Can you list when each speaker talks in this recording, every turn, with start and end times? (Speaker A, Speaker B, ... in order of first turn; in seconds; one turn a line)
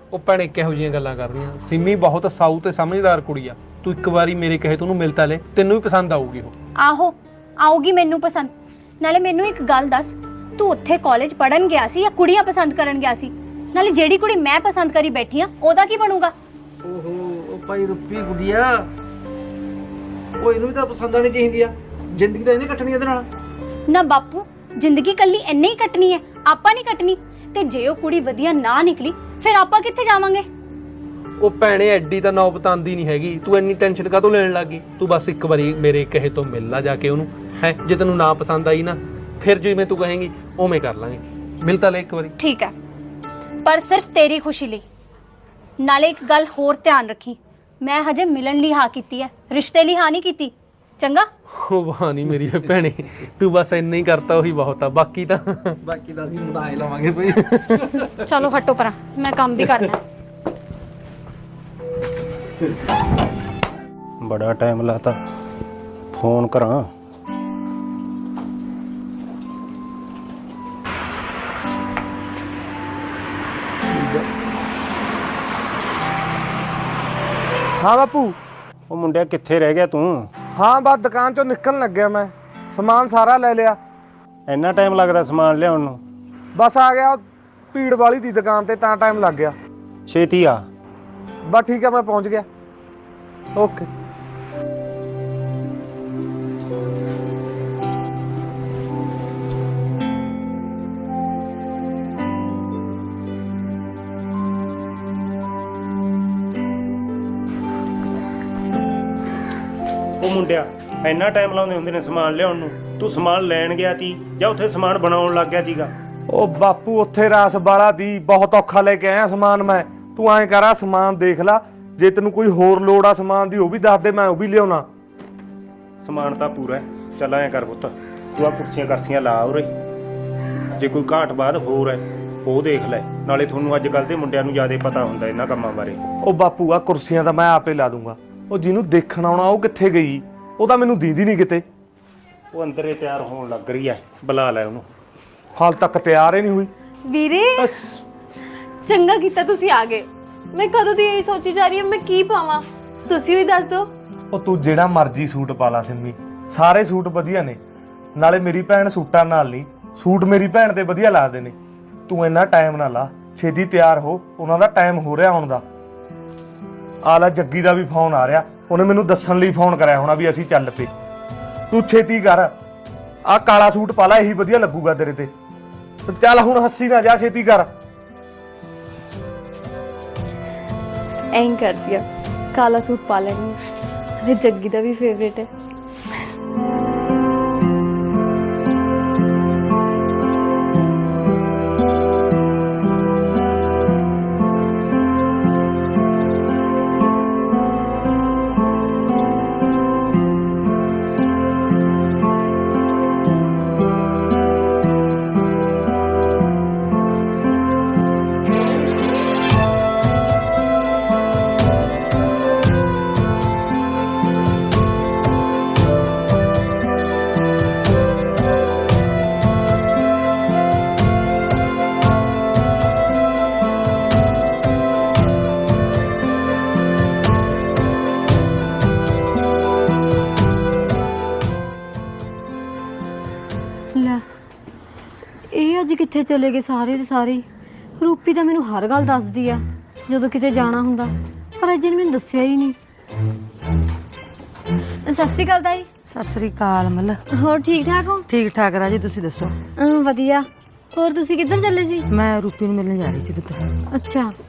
Speaker A: 0.1-6.5
Speaker B: 6.8-16.3
Speaker C: 16.8-18.9
Speaker C: 20.4-23.3
Speaker B: 23.9-30.4
Speaker A: 31.4-42.3
Speaker B: 42.4-42.7
Speaker B: 43.6-44.8
Speaker B: 45.8-51.3
Speaker A: 51.6-55.8
Speaker C: 55.8-58.3
Speaker B: 58.2-60.0
Speaker D: 64.2-65.2
Speaker D: 66.1-66.9
Speaker E: 77.8-78.3
Speaker D: 78.9-80.3
Speaker E: 80.5-83.8
Speaker D: 84.5-86.0
Speaker E: 86.5-87.2
Speaker E: 87.7-89.5
Speaker D: 90.1-90.6
Speaker E: 91.5-92.4
Speaker E: 93.5-93.9
Speaker D: 110.2-115.9
Speaker E: 116.3-124.8
Speaker D: 126.0-129.7
Speaker D: 130.8-136.0
Speaker E: 136.2-141.6
Speaker D: 142.5-144.9
Speaker E: 145.6-146.7
Speaker F: 147.2-147.6
Speaker E: 147.6-148.0
Speaker F: 148.9-153.8
Speaker B: 153.2-153.7
Speaker E: 154.3-157.6
Speaker E: 158.2-161.5
Speaker E: 162.1-165.6
Speaker E: 167.0-170.9
Speaker E: 171.7-172.5
Speaker E: 173.3-175.3
Speaker E: 176.1-177.7
Speaker F: 181.3-183.6
Speaker F: 184.2-185.5
Speaker G: 233.9-234.2
Speaker G: 235.5-237.4
Speaker G: 238.0-242.8
Speaker G: 245.1-245.8
Speaker H: 246.1-247.2
Speaker G: 247.3-248.2
Speaker H: 248.3-249.5
Speaker G: 249.8-252.1
Speaker H: 252.1-253.6
Speaker G: 253.9-254.3